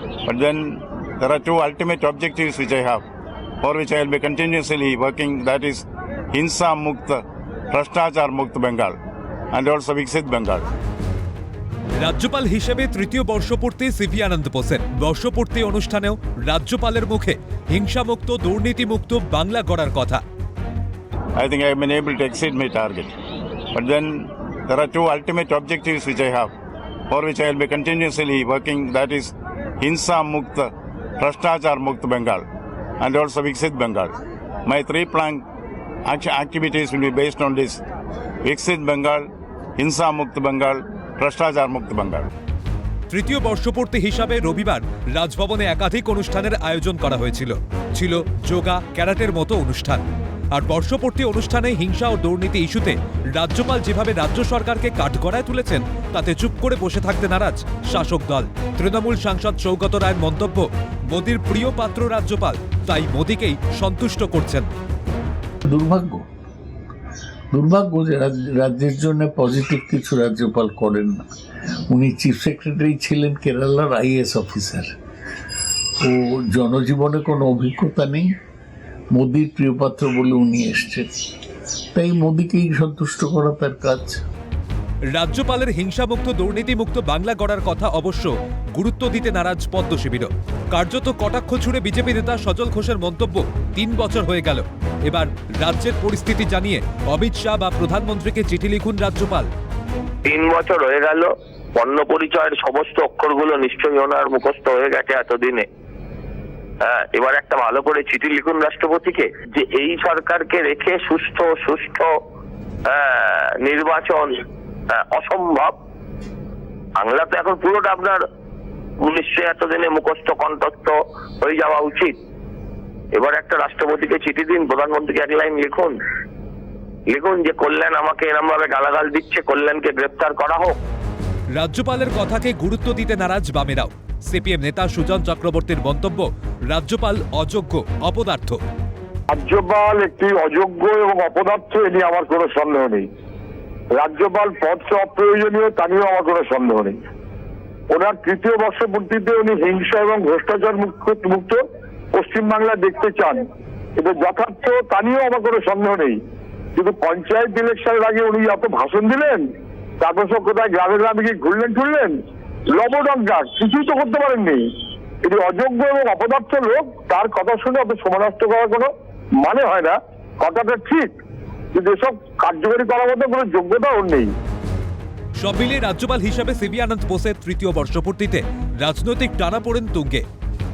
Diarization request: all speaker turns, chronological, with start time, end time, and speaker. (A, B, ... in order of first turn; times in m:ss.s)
0:00.3-0:03.0 A
0:03.6-0:09.0 A
0:09.5-0:10.7 A
0:12.0-0:20.2 B
0:21.4-0:23.1 A
0:23.7-0:26.5 A
0:27.1-0:32.4 A
0:33.0-0:35.4 A
0:36.0-0:37.8 A
0:38.4-0:42.3 A
0:43.1-0:50.0 B
0:50.5-1:04.7 B
1:05.7-1:06.3 C
1:07.5-1:11.2 C
1:11.9-1:14.9 C
1:16.0-1:18.3 C
1:19.1-1:21.2 C
1:21.9-1:24.2 C
1:25.1-1:39.5 B
1:40.3-1:45.6 D
1:46.8-1:52.1 D
1:52.9-1:54.3 D
1:54.9-1:55.7 D
1:57.0-1:58.2 D
1:59.0-2:02.2 D
2:03.1-2:06.0 D
2:07.1-2:10.8 D
2:11.5-2:18.6 B
2:19.3-2:23.1 E
2:23.9-2:27.0 E
2:27.9-2:31.6 E
2:32.1-2:33.4 E
2:34.0-2:36.2 E
2:36.8-2:39.4 E
2:40.0-2:42.1 E
2:42.7-2:44.6 E
2:45.2-2:51.1 E
2:51.7-2:54.3 E
2:55.4-3:00.2 B